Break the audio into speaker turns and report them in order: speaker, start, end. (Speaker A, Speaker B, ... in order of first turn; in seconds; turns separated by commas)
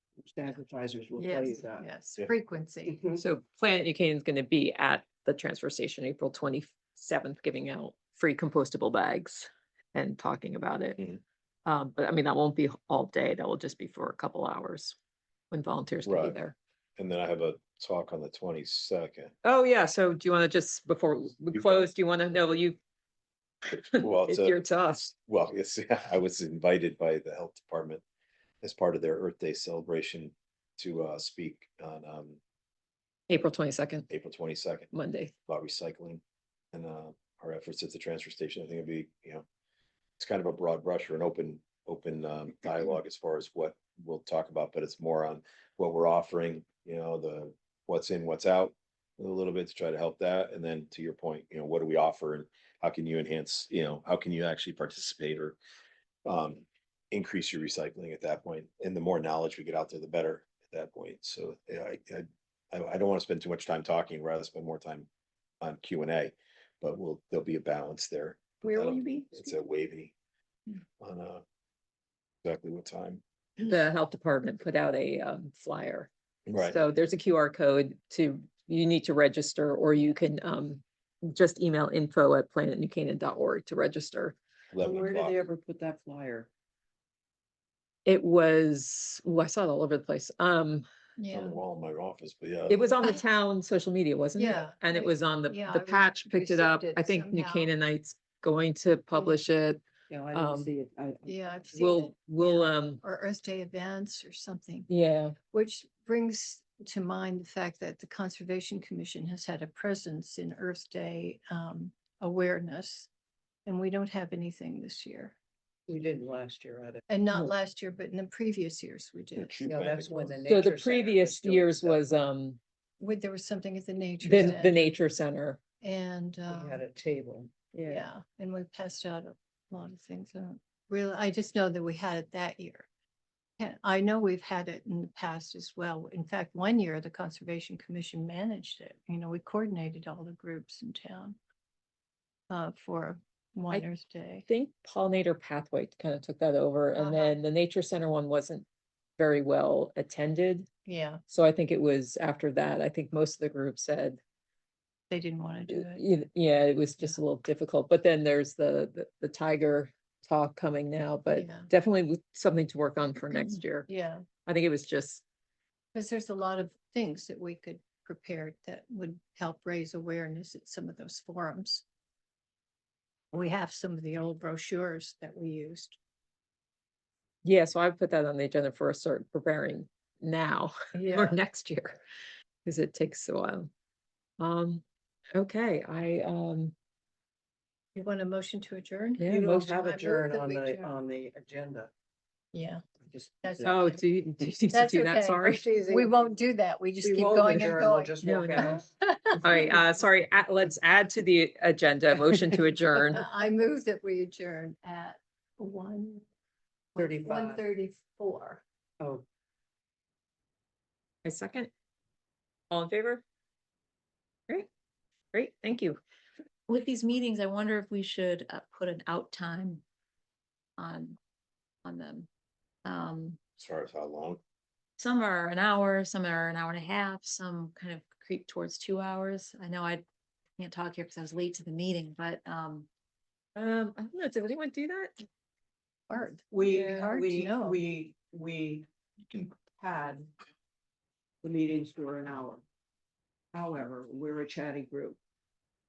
Speaker A: 0.2-1.9, Speaker B: 1.2-3.1, Speaker A: 2.9-3.2, Speaker C: 3.2-11.0, Speaker C: 11.7-14.9, Speaker C: 15.5-16.5, Speaker D: 16.0-16.4, Speaker D: 17.0-19.3, Speaker C: 19.4-22.8, Speaker D: 21.5-21.8, Speaker C: 23.7-25.1, Speaker D: 23.9-28.0, Speaker D: 28.6-32.4, Speaker C: 33.3-34.1, Speaker D: 34.1-34.9, Speaker C: 34.9-35.3, Speaker D: 35.5-36.2, Speaker D: 36.7-39.4, Speaker D: 40.2-55.6, Speaker D: 56.2-65.1, Speaker D: 65.6-70.1, Speaker B: 68.6-69.6, Speaker D: 71.0-71.4, Speaker D: 72.4-73.2, Speaker C: 73.6-84.3, Speaker D: 76.5-76.8, Speaker D: 84.7-85.5, Speaker A: 84.8-86.5, Speaker C: 88.0-90.8, Speaker B: 91.2-91.6, Speaker D: 91.3-92.9, Speaker C: 92.7-99.8, Speaker B: 94.3-97.7, Speaker B: 99.1-99.4, Speaker A: 100.1-101.5, Speaker C: 100.3-100.7, Speaker B: 101.2-104.9, Speaker C: 101.7-103.0, Speaker C: 104.9-105.3, Speaker B: 105.5-113.1, Speaker B: 113.7-115.3, Speaker A: 115.9-117.0, Speaker B: 117.1-119.5, Speaker D: 119.4-120.3, Speaker A: 119.6-122.1, Speaker C: 120.5-122.6, Speaker B: 123.0-125.0, Speaker C: 124.2-125.6, Speaker B: 125.8-126.8, Speaker A: 126.5-127.8, Speaker C: 127.7-128.0, Speaker B: 127.8-132.9, Speaker B: 133.6-141.4, Speaker B: 142.5-144.4, Speaker C: 144.4-148.7, Speaker B: 146.9-147.4, Speaker C: 149.2-150.7, Speaker B: 150.8-151.2, Speaker C: 151.3-154.2, Speaker B: 155.1-156.0, Speaker C: 155.7-163.9, Speaker B: 161.3-161.7, Speaker B: 163.9-164.2, Speaker C: 164.4-165.2, Speaker B: 165.9-171.8, Speaker B: 173.3-176.0, Speaker C: 177.4-182.0, Speaker B: 180.9-181.4, Speaker C: 182.6-183.7, Speaker C: 184.4-184.8, Speaker C: 185.3-186.7, Speaker B: 187.9-190.9, Speaker C: 189.2-189.6, Speaker A: 189.2-191.9, Speaker B: 192.5-192.8, Speaker A: 193.0-193.9, Speaker B: 193.4-194.0, Speaker C: 193.6-195.7, Speaker B: 194.7-199.8, Speaker A: 195.8-196.1, Speaker A: 197.0-198.8, Speaker C: 198.2-198.8, Speaker C: 199.4-203.2, Speaker B: 203.1-206.2, Speaker B: 206.9-208.6, Speaker A: 206.9-207.6, Speaker C: 211.2-211.7, Speaker C: 212.7-213.2, Speaker C: 215.3-216.0, Speaker E: 216.7-219.8, Speaker E: 220.8-221.2, Speaker E: 221.8-222.3, Speaker E: 222.8-223.4, Speaker D: 223.6-224.4, Speaker E: 225.0-230.0, Speaker E: 230.6-232.9, Speaker C: 233.6-235.2, Speaker B: 236.1-237.8, Speaker A: 236.5-240.3, Speaker C: 236.7-237.0, Speaker A: 241.4-242.6, Speaker A: 243.5-245.2